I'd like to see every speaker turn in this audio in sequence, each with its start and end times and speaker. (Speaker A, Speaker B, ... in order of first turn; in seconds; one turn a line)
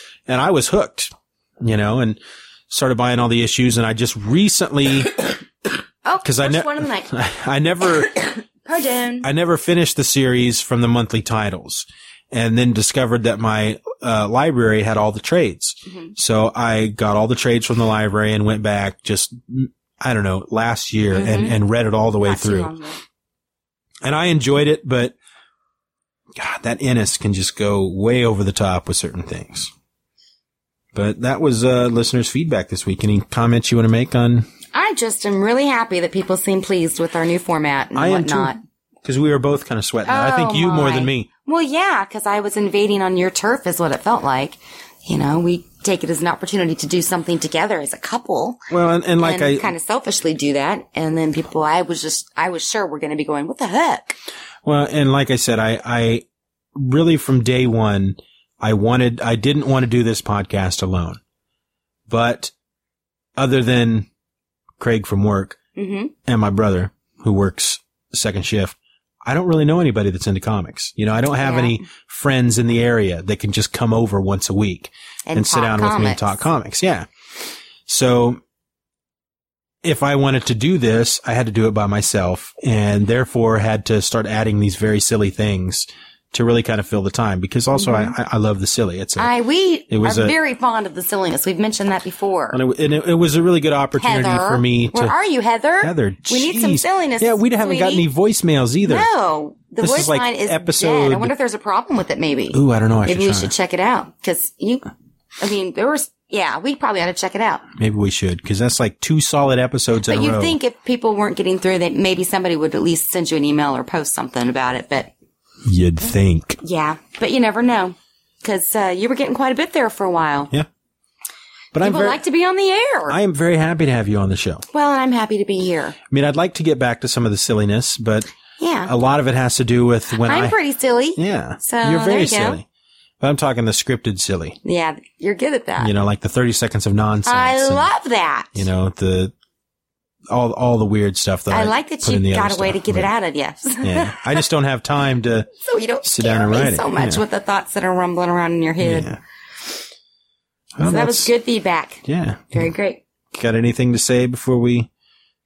Speaker A: 0.3-5.1
Speaker B: 6.0-7.1
Speaker A: 6.2-8.1
Speaker B: 8.2-9.3
Speaker A: 9.2-22.7
Speaker B: 15.9-16.1
Speaker B: 21.1-21.6
Speaker B: 22.2-23.0
Speaker A: 24.0-25.1
Speaker A: 26.4-29.7
Speaker A: 30.9-34.5
Speaker B: 34.7-38.6
Speaker A: 38.0-41.3
Speaker B: 40.0-48.6
Speaker A: 48.7-49.7
Speaker B: 49.2-54.2
Speaker A: 54.6-61.2
Speaker A: 62.1-62.5
Speaker A: 63.4-64.1
Speaker A: 64.8-65.6
Speaker B: 65.8-66.1
Speaker A: 66.2-77.1
Speaker B: 71.4-71.8
Speaker B: 75.3-76.4
Speaker A: 77.9-78.4
Speaker A: 79.8-89.3
Speaker B: 87.7-88.1
Speaker B: 89.2-92.6
Speaker A: 89.9-90.3
Speaker A: 92.5-95.2
Speaker B: 94.0-98.0
Speaker A: 95.8-99.1
Speaker B: 98.8-104.9
Speaker A: 99.8-101.3
Speaker A: 102.5-103.5
Speaker B: 105.4-107.6
Speaker A: 107.8-110.6
Speaker B: 110.0-115.1
Speaker A: 115.6-116.6
Speaker B: 116.6-120.5
Speaker A: 121.7-122.2
Speaker B: 121.8-123.2
Speaker A: 123.1-124.7
Speaker B: 124.7-126.0
Speaker A: 126.1-128.3
Speaker B: 128.6-128.9
Speaker A: 128.9-130.6
Speaker B: 130.2-132.6
Speaker A: 131.2-132.7
Speaker A: 133.2-134.6
Speaker B: 134.6-135.9
Speaker A: 135.8-137.9
Speaker B: 137.3-138.7
Speaker A: 138.6-139.3
Speaker A: 140.3-143.1
Speaker B: 141.5-144.4
Speaker A: 143.8-145.5
Speaker B: 145.6-149.1
Speaker A: 146.0-147.2
Speaker A: 148.8-149.2
Speaker A: 150.8-151.3
Speaker B: 150.8-153.0
Speaker A: 152.1-152.7
Speaker A: 153.3-154.9